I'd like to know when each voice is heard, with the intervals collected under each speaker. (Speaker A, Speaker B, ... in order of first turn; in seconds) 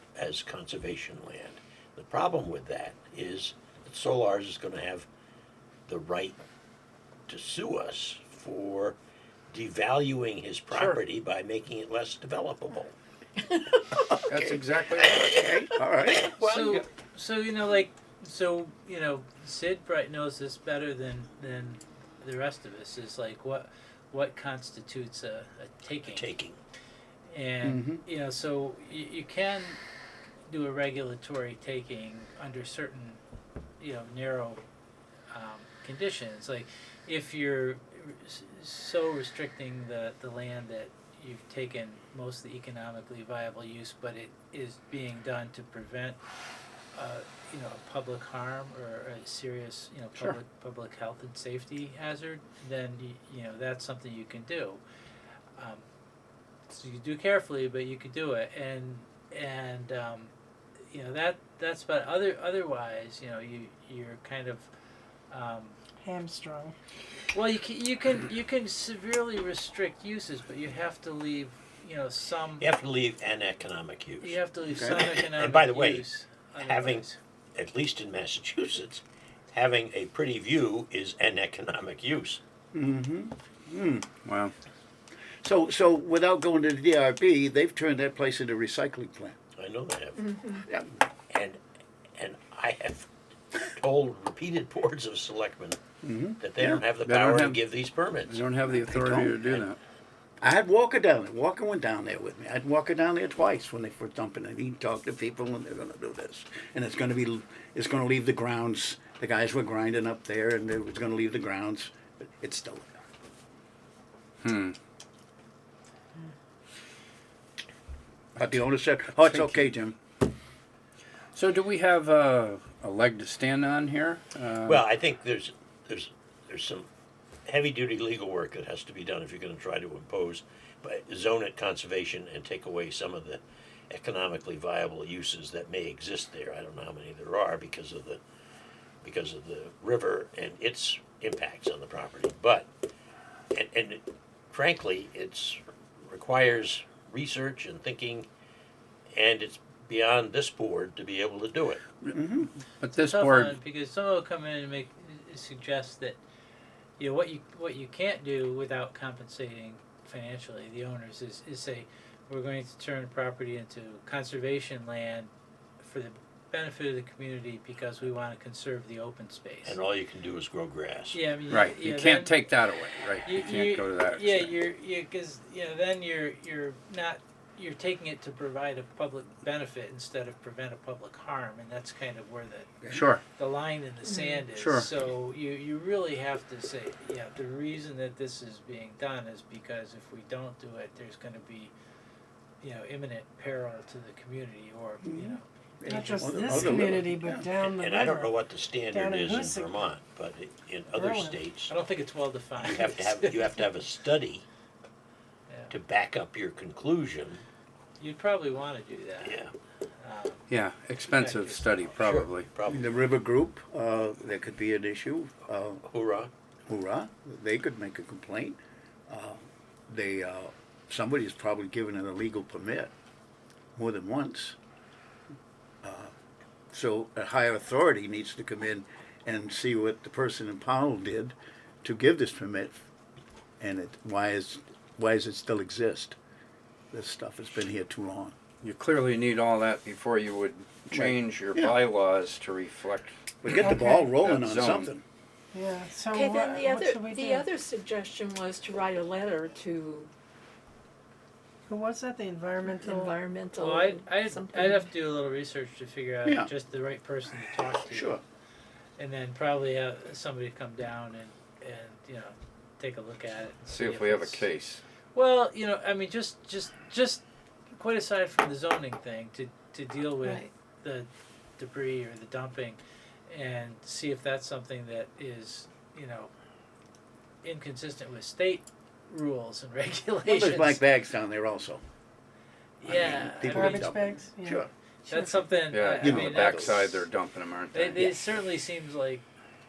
Speaker A: 0.2-5.1, 5.9-6.4, 7.3-9.0, 9.5-12.9, 15.0-16.9, 26.0-26.6, 72.6-74.4, 74.9-82.4, 89.6-90.6, 91.3-91.6, 92.2-95.8, 96.4-98.5, 99.4-99.7, 124.6-126.9, 127.5-138.2, 139.0-142.7, 143.5-148.3, 149.2-151.8, 169.6-171.2, 197.6-201.7, 202.6-204.4, 205.7-207.4, 209.2-209.5, 211.9-212.9, 215.8-216.3
Speaker B: 10.7-11.0, 14.3-15.3, 84.2-84.5, 97.0-97.6, 98.2-99.8, 114.4-114.8, 119.2-119.7, 121.3-124.8, 152.8-153.6, 171.5-174.6, 182.9-183.2, 184.6-184.9, 210.5-212.5, 238.6-243.3, 244.2-244.9, 263.7-264.8, 285.7-288.0
Speaker C: 15.1-16.4, 27.6-28.0, 74.7-75.0, 82.7-84.1, 85.4-89.4, 96.0-96.8, 98.7-99.4, 100.4-113.0, 118.4-120.0, 152.0-152.5, 195.0-197.5, 212.7-215.8, 216.7-222.9, 223.8-224.6, 225.8-226.1, 226.7-232.8, 233.6-236.2, 236.9-238.3, 240.9-241.8, 243.4-245.0, 256.2-256.5, 257.9-258.2, 280.2-281.8, 282.9-284.7, 286.0-286.8
Speaker D: 16.4-26.2, 27.3-29.7, 30.5-33.2, 33.8-34.6, 35.4-46.2, 46.9-54.8, 55.6-55.9, 56.7-60.3, 60.9-64.7, 65.3-65.8, 67.3-72.6, 74.2-77.2, 153.0-156.2, 157.0-165.3, 165.8-169.6, 171.1-172.3, 173.2-182.8, 183.3-191.7, 192.6-196.8, 201.7-202.8, 208.0-209.3, 210.0-210.4, 211.1-211.9, 246.2-247.2, 249.6-250.1, 252.7-258.2, 259.0-264.4, 265.1-267.2, 267.8-276.3, 277.4-280.8, 282.8-286.9, 287.7-289.2
Speaker E: 66.0-66.7, 195.9-198.3, 198.9-199.7, 200.9-201.4, 243.5-244.2, 245.5-247.5, 251.7-253.1, 283.5-285.4
Speaker F: 184.0-184.4, 246.2-249.6, 252.8-254.8